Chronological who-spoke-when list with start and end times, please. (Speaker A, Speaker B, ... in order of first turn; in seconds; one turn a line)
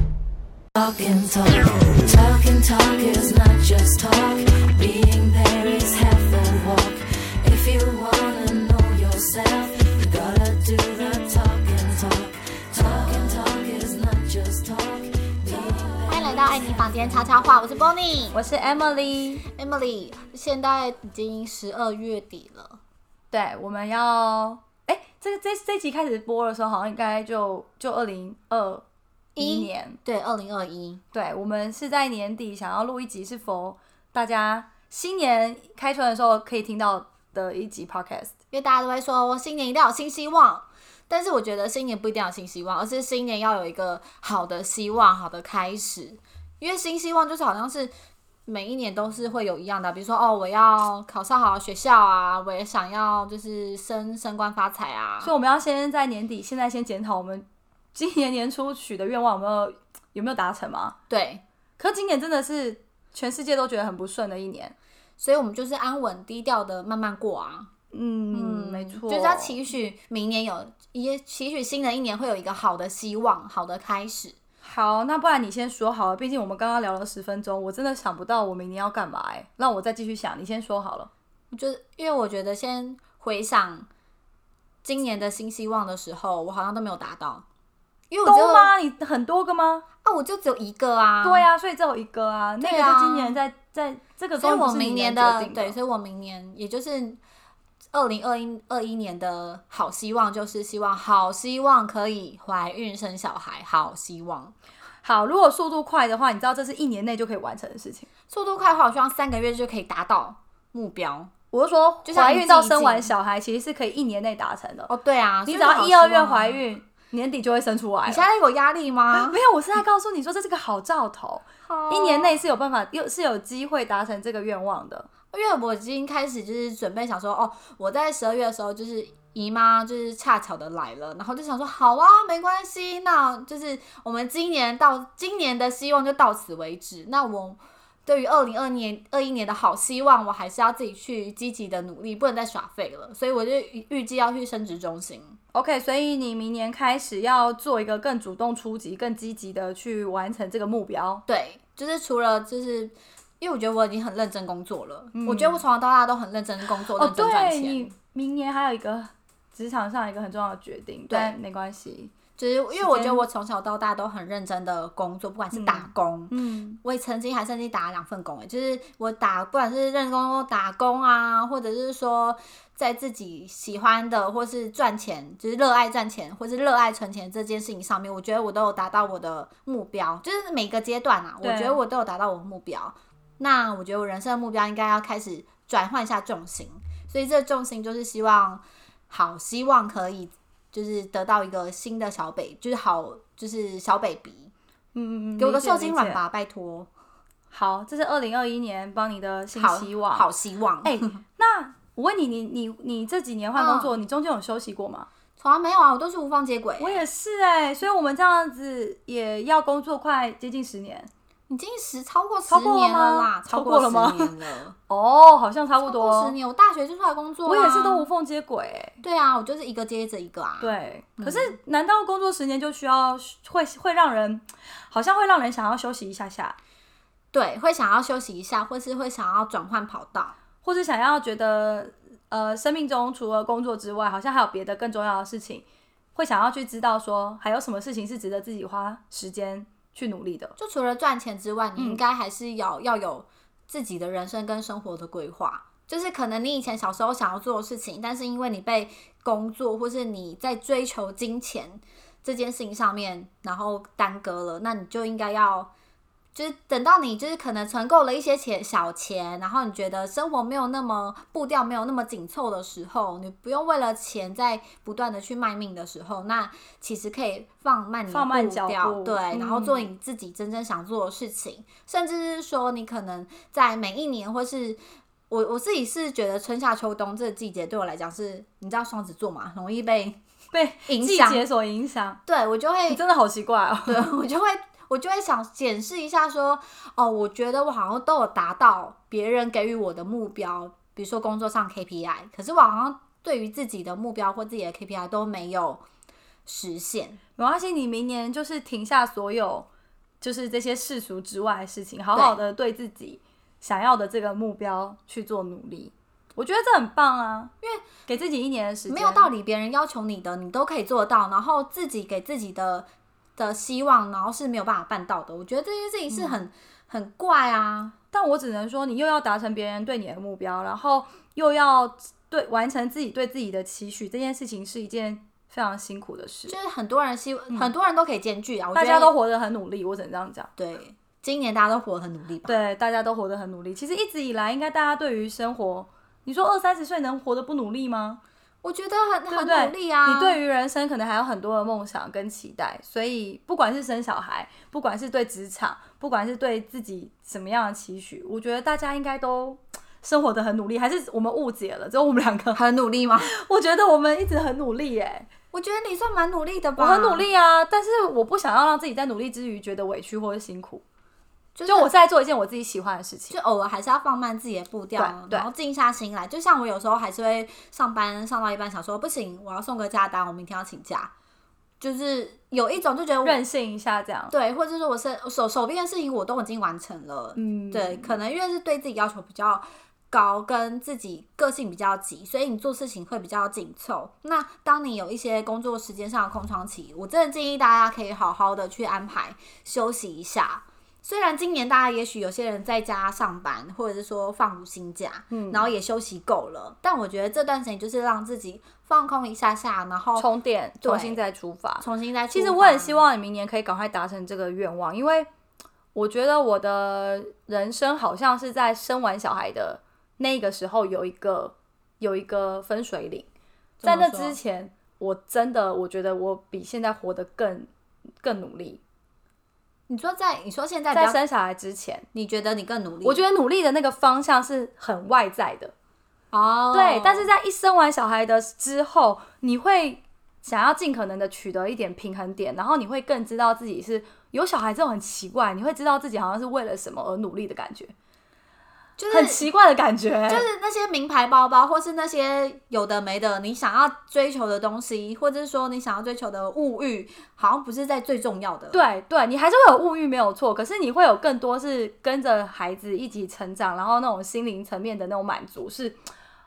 Speaker A: 0.8-16.2
Speaker B: 16.0-18.4
Speaker C: 18.3-19.4
Speaker B: 19.5-22.8
Speaker C: 23.3-28.8
Speaker B: 29.4-31.0
Speaker C: 29.4-30.0
Speaker C: 31.1-38.3
Speaker B: 38.5-47.9
Speaker B: 48.5-55.3
Speaker C: 55.2-60.9
Speaker B: 61.1-61.4
Speaker C: 61.8-64.7
Speaker B: 65.2-67.7
Speaker C: 67.9-69.5
Speaker B: 68.3-74.4
Speaker C: 74.6-81.1
Speaker B: 81.5-83.9
Speaker B: 84.8-87.4
Speaker B: 88.1-88.7
Speaker C: 88.2-89.8
Speaker B: 90.0-91.5
Speaker C: 91.2-95.7
Speaker B: 92.6-93.4
Speaker B: 94.4-97.2
Speaker B: 97.9-104.5
Speaker C: 105.0-108.1
Speaker B: 108.3-111.3
Speaker C: 111.5-114.9
Speaker B: 112.0-113.1
Speaker B: 114.9-116.6
Speaker C: 115.5-118.2
Speaker B: 118.0-119.4
Speaker C: 119.1-125.1
Speaker B: 121.6-122.3
Speaker B: 125.3-145.4
Speaker C: 145.5-151.2
Speaker B: 151.3-157.9
Speaker C: 155.1-155.6
Speaker C: 156.9-162.1
Speaker B: 162.4-194.5
Speaker C: 162.8-163.2
Speaker C: 165.5-166.8
Speaker C: 181.4-181.8
Speaker C: 194.9-196.2
Speaker B: 195.4-196.9
Speaker C: 197.5-200.3
Speaker B: 199.6-201.2
Speaker C: 200.8-205.1
Speaker B: 203.6-203.9
Speaker B: 205.4-207.0
Speaker C: 206.8-211.1
Speaker B: 211.5-214.7
Speaker C: 212.5-214.3
Speaker C: 214.9-216.3
Speaker B: 215.8-218.1
Speaker C: 217.4-218.9
Speaker B: 219.0-221.5
Speaker C: 220.6-226.6
Speaker B: 227.3-230.3
Speaker C: 230.6-235.6
Speaker C: 236.1-240.6
Speaker B: 240.6-255.7
Speaker C: 241.8-242.0
Speaker B: 256.3-274.8
Speaker C: 268.1-269.9
Speaker B: 275.3-280.2
Speaker C: 280.5-282.2
Speaker B: 280.9-281.4
Speaker B: 282.2-283.0
Speaker C: 282.9-284.0
Speaker B: 283.9-295.8
Speaker B: 296.4-297.2
Speaker C: 297.4-299.7
Speaker C: 300.2-307.5
Speaker B: 302.1-302.4
Speaker C: 308.1-309.3
Speaker B: 308.9-317.9
Speaker C: 316.1-316.4
Speaker C: 318.1-326.5
Speaker B: 326.5-329.1
Speaker C: 328.7-330.5
Speaker B: 330.6-332.6
Speaker C: 332.5-338.2
Speaker B: 338.6-340.4
Speaker C: 339.3-352.6
Speaker B: 352.5-353.3
Speaker C: 353.2-355.3
Speaker B: 355.5-357.2
Speaker C: 356.8-360.8
Speaker B: 361.6-361.9
Speaker C: 361.7-363.3
Speaker B: 363.3-371.1
Speaker C: 365.0-365.5
Speaker B: 371.8-373.4
Speaker C: 373.2-374.3
Speaker B: 374.3-400.3
Speaker C: 377.4-378.2
Speaker C: 395.3-395.7
Speaker C: 400.2-405.3
Speaker B: 400.8-401.2
Speaker B: 401.8-403.0
Speaker C: 405.9-413.3
Speaker B: 413.8-414.4
Speaker C: 413.8-417.7
Speaker C: 418.2-418.8
Speaker B: 419.9-421.2
Speaker C: 420.9-422.1
Speaker B: 422.1-423.2
Speaker C: 423.0-425.7
Speaker B: 426.3-427.3
Speaker C: 426.7-437.9
Speaker B: 439.0-439.4
Speaker C: 439.1-440.4
Speaker B: 440.3-448.8
Speaker C: 448.7-456.0